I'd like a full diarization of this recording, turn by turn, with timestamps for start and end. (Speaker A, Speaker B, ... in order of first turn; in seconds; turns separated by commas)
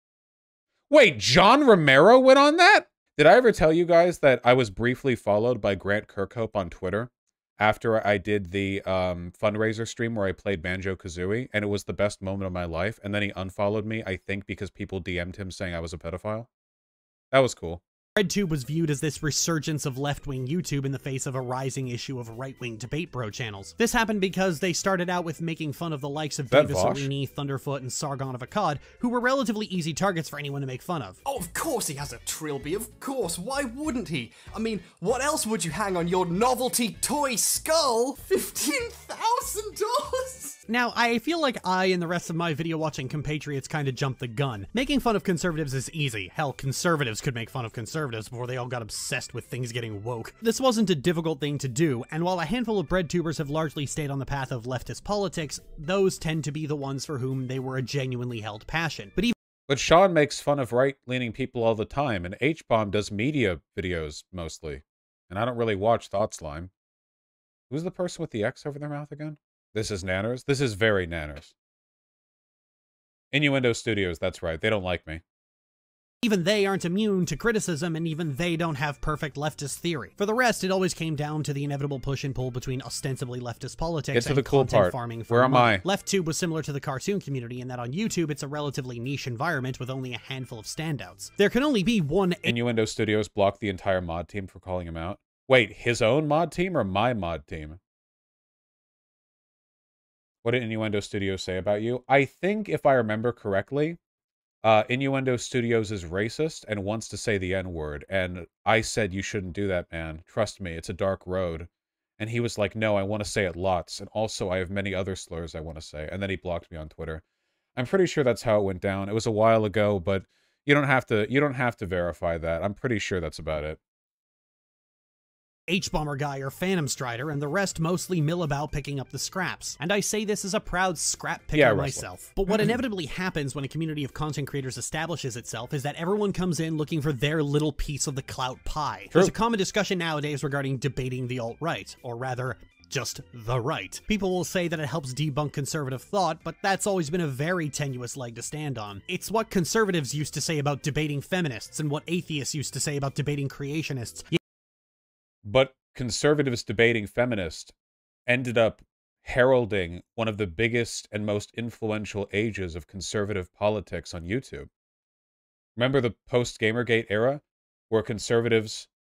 Speaker A: 0.9-16.5, Speaker A: 17.3-17.8, Speaker B: 18.2-31.2, Speaker A: 26.5-27.1, Speaker C: 31.3-40.6, Speaker B: 40.7-59.3, Speaker A: 59.7-66.7, Speaker A: 67.7-71.5, Speaker A: 73.3-75.2, Speaker B: 76.2-92.5, Speaker A: 84.1-85.8, Speaker A: 92.5-97.8, Speaker A: 100.4-104.0, Speaker A: 104.6-117.2, Speaker A: 117.8-123.8, Speaker B: 125.7-154.4, Speaker A: 131.5-132.1, Speaker A: 155.4-157.7, Speaker A: 158.3-164.7, Speaker A: 165.8-168.9